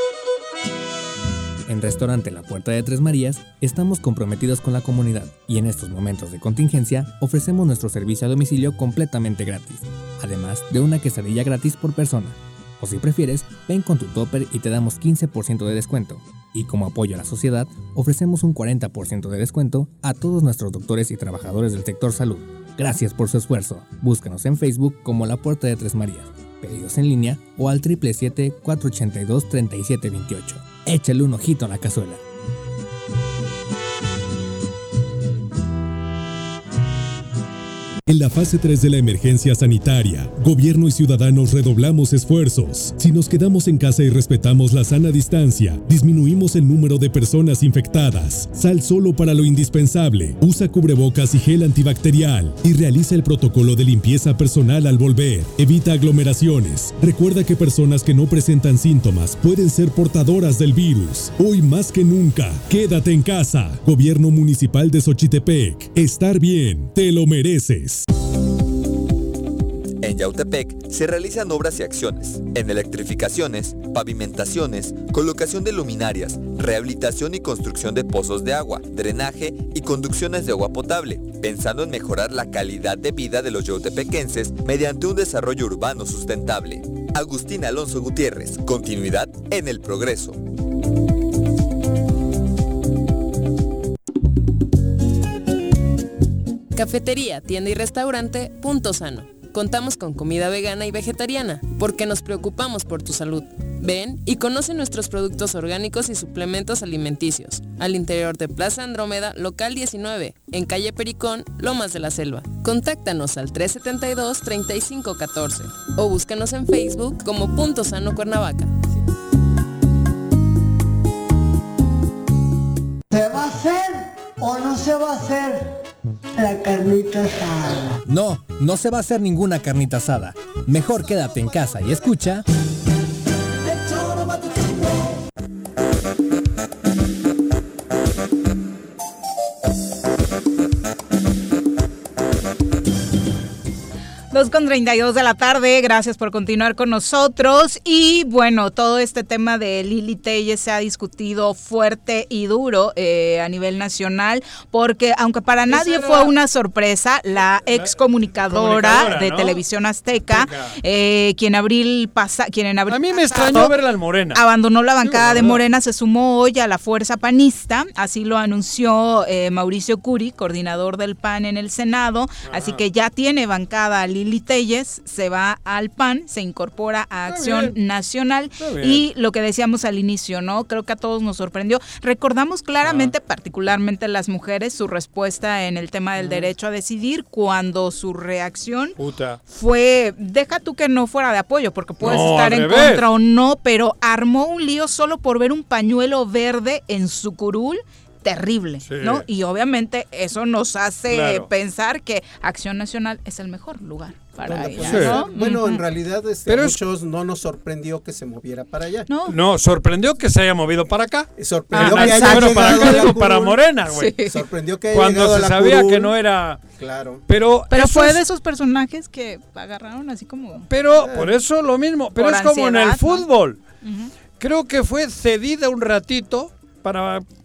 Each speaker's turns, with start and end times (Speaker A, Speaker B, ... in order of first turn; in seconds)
Speaker A: 1.6-32.2, 128.1-132.4
Speaker B: 38.1-68.0
Speaker C: 70.0-90.4
Speaker D: 96.7-118.7
Speaker E: 123.1-125.7, 126.3-128.0, 133.8-134.7
Speaker F: 144.3-163.8, 164.3-189.0, 189.5-205.8, 209.1-209.3, 211.7-213.1, 213.9-214.3, 217.7-220.7, 222.2-223.3, 223.8-224.1
Speaker G: 155.7-156.3, 157.4-159.6, 160.3-160.8, 162.9-164.4, 165.0-165.6, 172.4-172.8, 177.3-177.7, 178.6-179.0, 182.8-183.1, 186.2-186.5, 189.0-189.4, 192.0-193.1, 198.8-199.2, 201.1-201.5, 204.8-205.3, 206.5-206.8, 209.3-214.1, 214.9-216.6, 217.3-218.2, 220.7-223.6, 224.4-227.2
Speaker H: 204.4-209.1, 211.4-213.6, 214.3-216.1, 216.8-217.2, 220.9-221.3